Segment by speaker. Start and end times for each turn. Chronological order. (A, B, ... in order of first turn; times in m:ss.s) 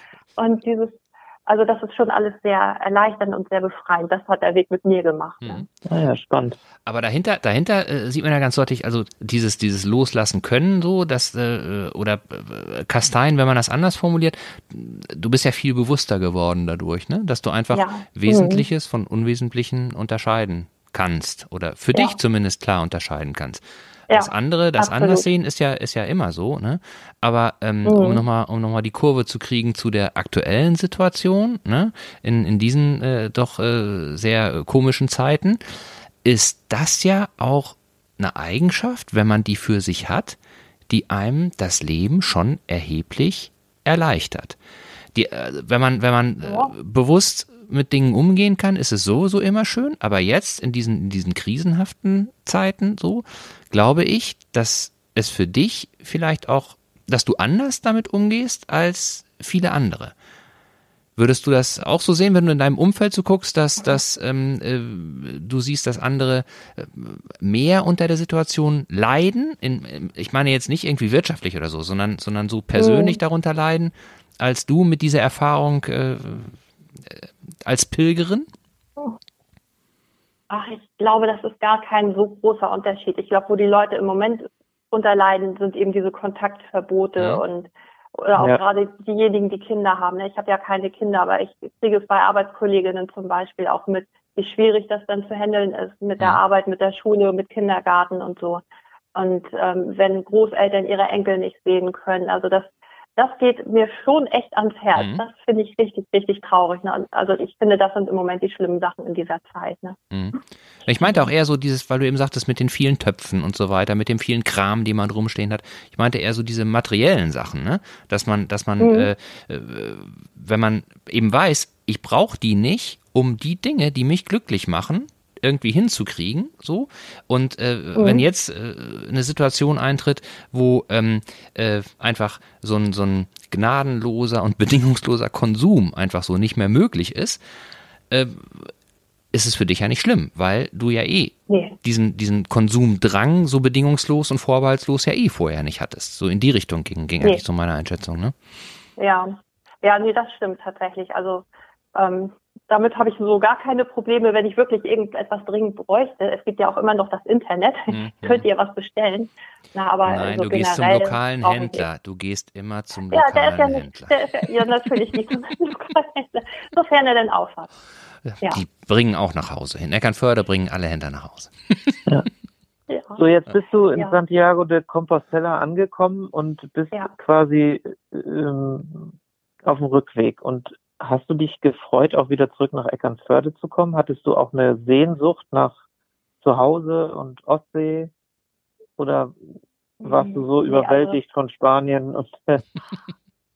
0:00.4-0:05.6 A
0:05.8-0:06.6 B
0:06.8-0:40.4 C
0:17.7-0:18.6 A
0:24.1-0:25.3 A
0:27.8-0:28.2 A
0:40.9-0:44.6 C
0:45.1-1:00.1 C
0:46.4-0:46.7 A
1:01.2-1:18.5 C
1:12.8-1:13.2 A
1:20.5-1:38.6 A
1:27.2-1:27.4 C
1:39.1-1:50.0 A
1:45.0-1:45.2 C
1:50.1-2:17.4 C
1:51.0-1:51.3 A
1:58.8-1:59.1 A
2:08.0-2:08.2 A
2:18.1-2:18.7 C
2:19.3-2:28.3 C
2:21.5-2:21.8 A
2:29.0-2:41.8 A
2:37.9-2:38.4 C
2:40.0-2:44.5 C
2:43.1-2:47.7 A
2:48.2-2:52.0 C
2:52.9-2:53.2 A
2:53.2-3:05.8 B
3:06.4-3:08.1 B
3:09.0-3:09.4 B
3:10.0-3:11.2 A
3:10.0-3:12.6 B